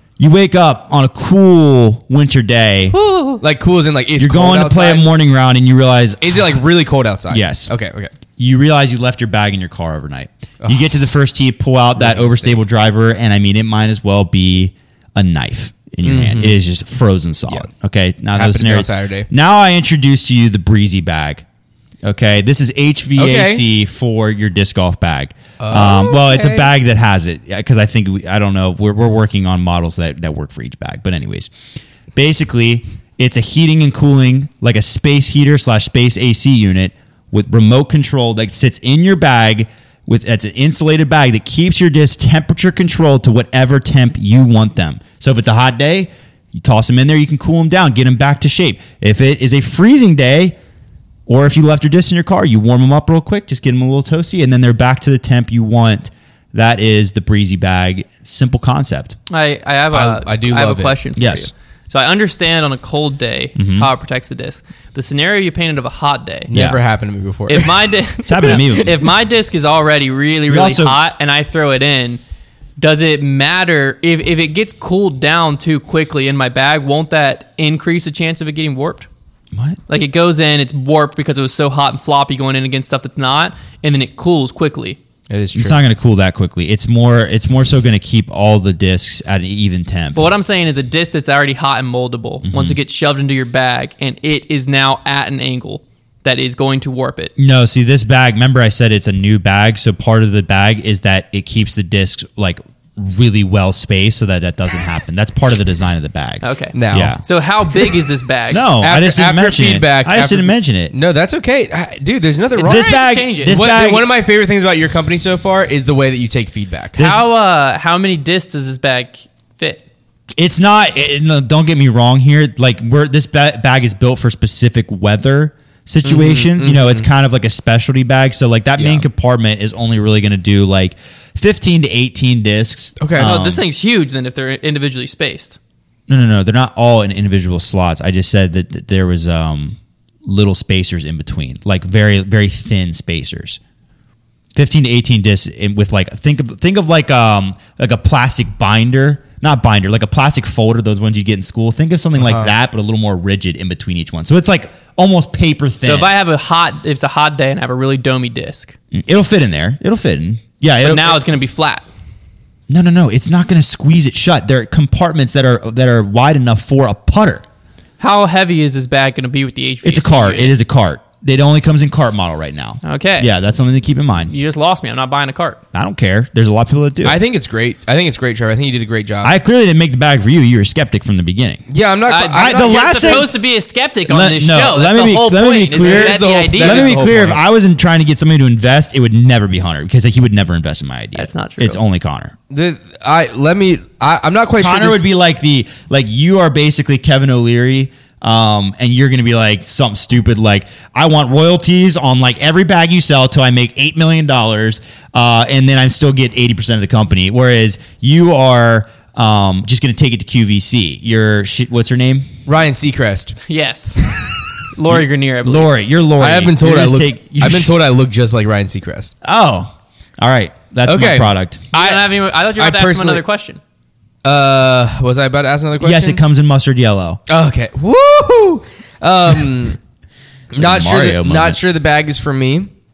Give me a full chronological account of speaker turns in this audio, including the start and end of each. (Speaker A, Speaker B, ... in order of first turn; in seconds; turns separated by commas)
Speaker A: 0.2-3.0, Speaker B: 2.9-3.4, Speaker C: 3.4-5.1, Speaker A: 4.2-6.5, Speaker C: 6.2-8.1, Speaker A: 7.3-7.7, Speaker A: 8.3-21.4, Speaker C: 10.6-10.9, Speaker C: 11.9-12.6, Speaker C: 16.0-16.6, Speaker C: 18.3-19.3, Speaker A: 22.0-31.5, Speaker C: 23.2-23.6, Speaker C: 25.6-26.7, Speaker A: 32.1-50.5, Speaker A: 51.3-59.2, Speaker B: 59.3-66.5, Speaker C: 59.9-61.0, Speaker A: 61.1-61.5, Speaker A: 63.5-63.9, Speaker C: 66.5-68.6, Speaker A: 66.5-66.8, Speaker B: 67.5-72.2, Speaker A: 68.2-69.0, Speaker A: 70.5-71.0, Speaker B: 72.8-79.1, Speaker A: 79.5-79.8, Speaker B: 79.9-85.0, Speaker C: 85.3-85.8, Speaker A: 85.5-90.3, Speaker B: 90.1-97.3, Speaker A: 92.4-92.8, Speaker A: 97.4-107.2, Speaker B: 106.4-108.7, Speaker C: 106.7-107.2, Speaker A: 108.5-110.9, Speaker C: 108.8-112.9, Speaker B: 112.5-113.6, Speaker A: 112.6-114.1, Speaker C: 113.4-117.0, Speaker A: 117.0-117.2, Speaker B: 117.0-119.8, Speaker A: 120.3-133.6, Speaker C: 126.0-127.1, Speaker C: 128.8-129.0, Speaker C: 133.0-133.3, Speaker B: 133.2-135.6, Speaker A: 136.1-143.6, Speaker A: 144.5-156.1, Speaker C: 152.2-152.5, Speaker B: 155.8-158.8, Speaker A: 158.9-161.2, Speaker B: 160.8-161.8, Speaker A: 162.7-167.4, Speaker B: 168.0-170.6, Speaker A: 169.8-174.3, Speaker B: 172.8-173.3, Speaker B: 174.3-175.6, Speaker A: 175.7-177.2, Speaker C: 177.0-179.3, Speaker A: 179.2-181.6, Speaker C: 181.7-183.3, Speaker B: 182.1-187.0, Speaker A: 182.3-183.3, Speaker A: 184.1-192.3, Speaker C: 185.8-187.4, Speaker B: 191.1-191.8, Speaker C: 192.5-195.0, Speaker A: 194.6-212.3, Speaker C: 212.4-213.4, Speaker B: 213.4-214.2, Speaker C: 214.0-214.5, Speaker B: 214.7-215.7, Speaker A: 214.9-217.7, Speaker C: 216.2-219.1, Speaker A: 219.2-221.6, Speaker C: 220.8-223.2, Speaker B: 221.7-223.6, Speaker C: 224.2-226.2, Speaker A: 225.8-227.2, Speaker C: 227.3-229.8, Speaker C: 230.5-232.7, Speaker A: 230.5-231.6